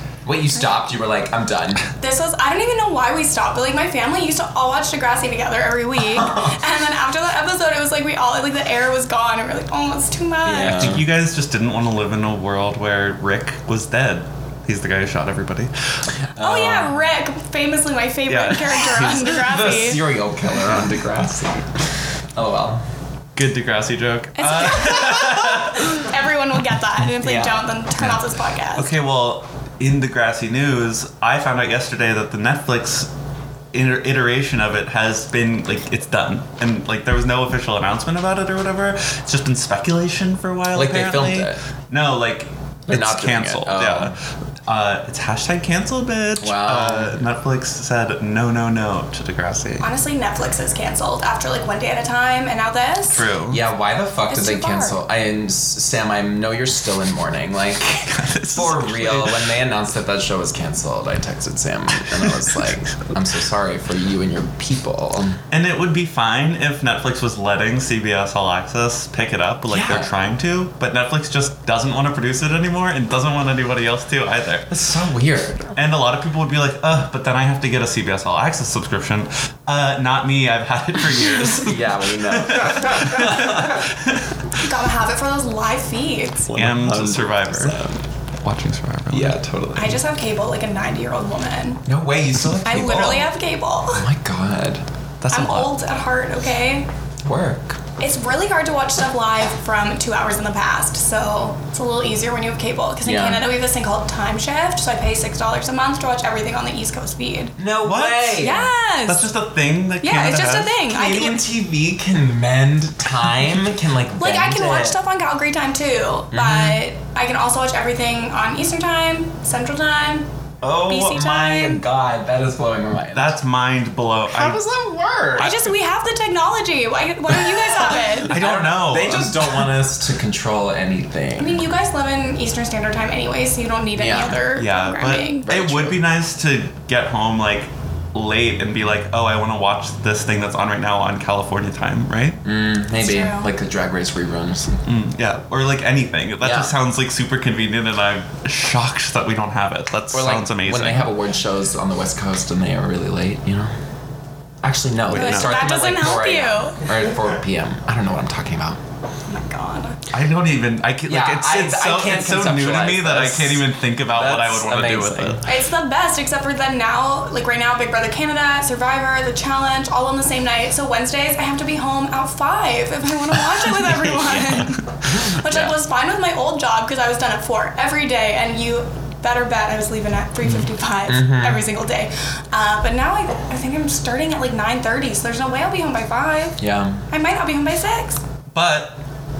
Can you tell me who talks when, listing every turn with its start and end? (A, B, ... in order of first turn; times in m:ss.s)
0:00.2-0:01.8 A
0:02.0-0:10.9 B
0:06.0-0:06.6 A
0:10.4-0:11.1 A
0:10.6-0:15.7 C
0:16.4-0:17.0 A
0:16.4-0:20.0 B
0:18.3-0:19.4 C
0:19.3-0:22.8 A
0:23.4-0:26.0 C
0:24.4-0:28.9 B
0:27.2-0:27.6 A
0:28.7-0:33.1 C
0:33.7-0:49.9 C
0:40.7-0:41.6 A
0:42.9-0:44.2 A
0:46.4-0:47.2 A
0:49.8-0:53.2 B
0:53.1-0:53.6 C
0:53.5-1:05.4 A
0:54.3-0:55.0 B
0:57.9-0:59.5 C
1:02.1-1:02.5 C
1:05.5-1:14.7 C
1:09.7-1:10.1 A
1:14.7-1:15.8 A
1:15.8-1:24.3 C
1:21.6-1:23.8 A
1:24.6-1:26.5 B
1:26.5-1:28.0 A
1:26.5-1:27.8 C
1:28.4-1:29.4 C
1:29.1-1:30.0 A
1:29.8-1:31.8 B
1:31.8-1:33.3 A
1:32.6-1:34.1 B
1:33.9-1:34.8 A
1:35.2-1:35.7 C
1:35.3-1:36.9 B
1:37.2-1:37.8 A
1:38.0-1:47.6 B
1:43.0-1:43.5 A
1:47.6-1:48.7 A
1:47.8-1:48.5 C
1:48.4-1:49.3 B
1:49.1-1:50.7 C
1:50.0-1:51.4 B
1:50.9-1:55.0 A
1:54.2-2:00.3 B
1:56.3-1:56.8 A
2:00.6-2:03.4 A
2:00.9-2:01.8 B
2:03.1-2:04.6 C
2:04.3-2:05.6 A
2:05.4-2:08.3 B
2:08.2-2:11.6 A
2:08.3-2:09.6 C
2:11.4-2:15.5 B
2:14.0-2:14.4 A
2:14.6-2:22.4 C
2:15.5-2:16.0 A
2:22.4-2:24.8 A
2:23.0-2:23.5 B
2:24.9-2:31.2 C
2:26.4-2:26.7 A
2:30.1-2:33.7 A
2:34.6-2:38.8 A
2:35.1-2:35.6 C
2:35.1-2:36.8 B
2:39.3-2:40.0 B
2:40.1-2:45.5 C
2:41.1-2:45.4 A
2:45.5-3:06.6 B
2:53.5-2:54.8 C
3:01.1-3:01.7 A
3:06.6-3:07.0 A
3:07.1-3:08.2 B
3:08.5-3:09.0 C